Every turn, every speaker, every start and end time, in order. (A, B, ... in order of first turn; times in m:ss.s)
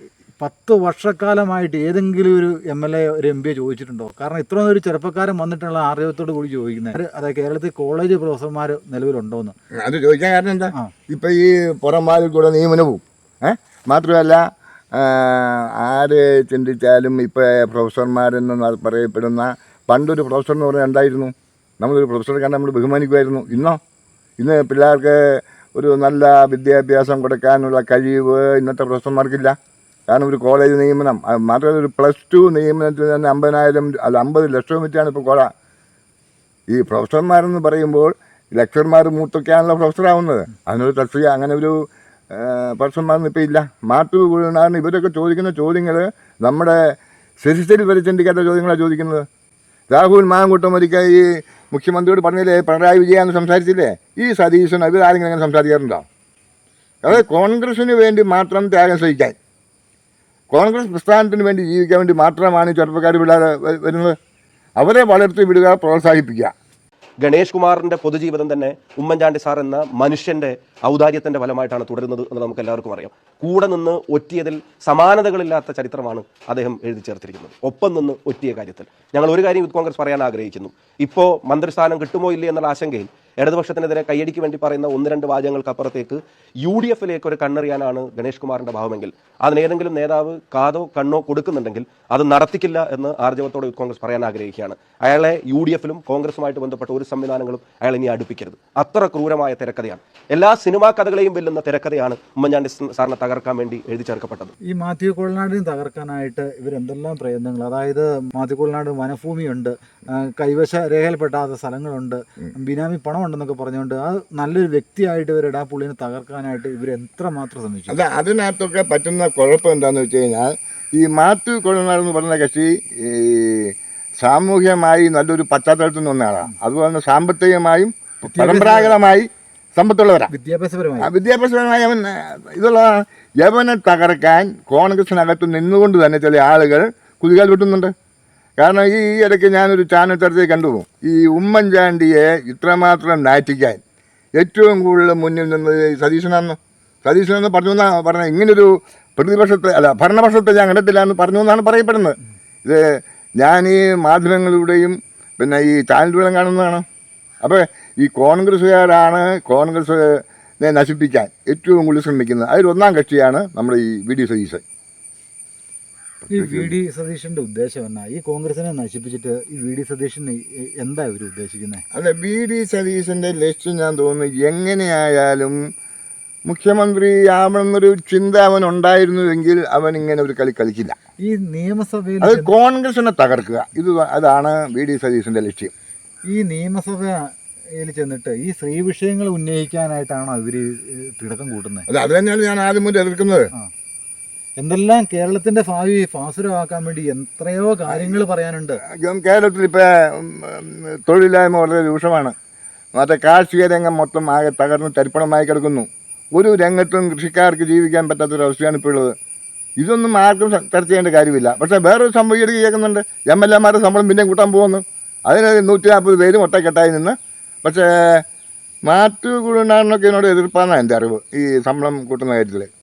0:00.4-0:09.6 A
0:09.7-0:23.8 B
0:24.4-0:29.6 B
0:30.1-0:35.5 B
0:36.7-0:49.3 B
0:49.9-0:56.0 B
0:57.0-0:59.4 B
1:00.5-1:04.2 B
1:04.8-1:06.5 B
1:07.2-1:44.5 C
1:44.7-1:58.0 A
1:57.9-2:10.3 B
2:08.3-2:09.0 A
2:10.3-2:11.1 A
2:11.0-2:17.9 B
2:18.6-2:23.8 B
2:24.4-2:32.8 B
2:33.4-2:36.8 B
2:37.4-2:44.6 B
2:46.2-2:46.7 B
2:46.3-2:51.8 A
2:51.9-2:55.6 B
2:56.5-3:01.0 B
3:01.2-3:02.5 A
3:02.2-3:05.7 B
3:06.3-3:11.9 A
3:11.9-3:13.5 B
3:14.6-3:18.8 A
3:17.9-3:18.2 B
3:18.8-3:22.3 B
3:23.0-3:29.1 B
3:29.8-3:38.2 B
3:38.9-3:42.7 B